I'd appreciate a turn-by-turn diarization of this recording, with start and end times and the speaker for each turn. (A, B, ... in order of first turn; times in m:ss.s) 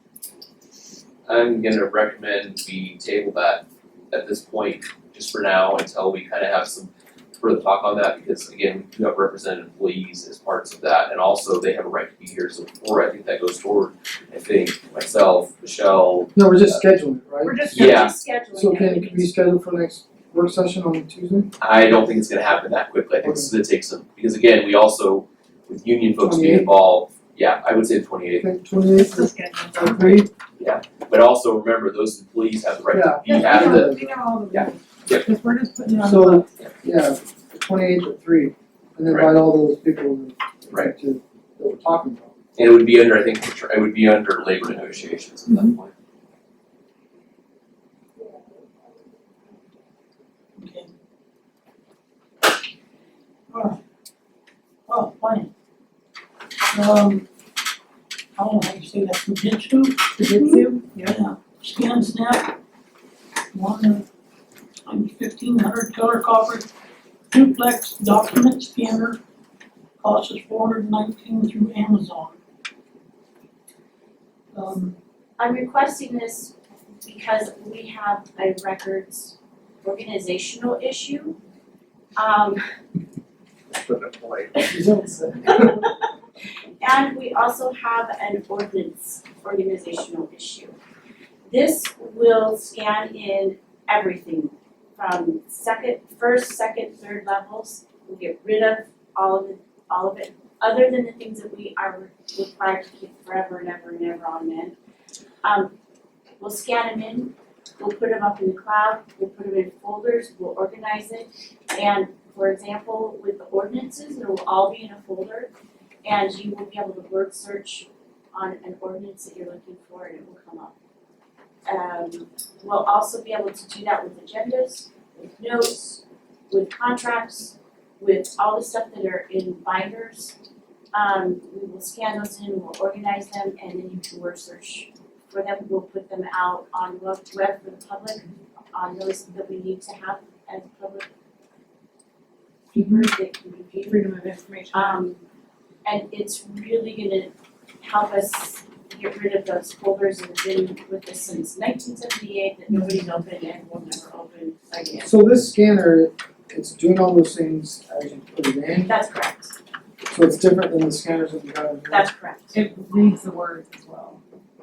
0:01.2-0:16.8 A
0:16.3-0:17.9 B
0:17.4-0:18.1 C
0:17.7-0:18.2 A
0:17.7-0:19.3 D
0:18.5-0:21.5 B
0:21.6-0:28.4 A
0:23.2-0:23.5 B
0:26.2-0:26.7 B
0:28.4-0:30.3 B
0:28.9-0:30.3 C
0:30.6-0:33.9 A
0:32.9-0:34.2 B
0:33.2-0:36.5 C
0:34.5-0:35.3 A
0:36.0-0:42.3 B
0:39.1-0:39.3 A
0:42.5-0:45.9 A
0:45.5-0:45.7 C
0:50.6-0:50.9 E
0:53.5-0:53.8 E
0:54.9-0:55.5 E
0:56.7-0:57.3 E
0:58.4-1:02.6 E
1:00.2-1:01.2 C
1:03.5-1:04.0 E
1:04.8-1:06.7 E
1:07.3-1:09.2 E
1:10.0-1:12.4 E
1:14.5-1:14.9 E
1:15.4-1:21.4 D
1:22.2-1:22.6 D
1:24.6-1:25.8 B
1:25.5-1:25.8 D
1:26.8-1:30.7 D
1:31.5-1:44.7 D
1:45.4-1:45.7 D
1:46.4-1:55.5 D
1:56.0-2:00.7 D
2:01.6-2:10.3 D
2:10.9-2:21.0 D
2:22.7-2:23.1 C
2:22.7-2:24.1 D
2:23.8-2:25.1 C
2:24.7-2:25.2 D
2:25.8-2:35.1 D
2:35.0-2:39.0 B
2:38.8-2:39.5 D
2:40.1-2:42.1 B
2:41.9-2:42.5 D
2:42.5-2:44.2 C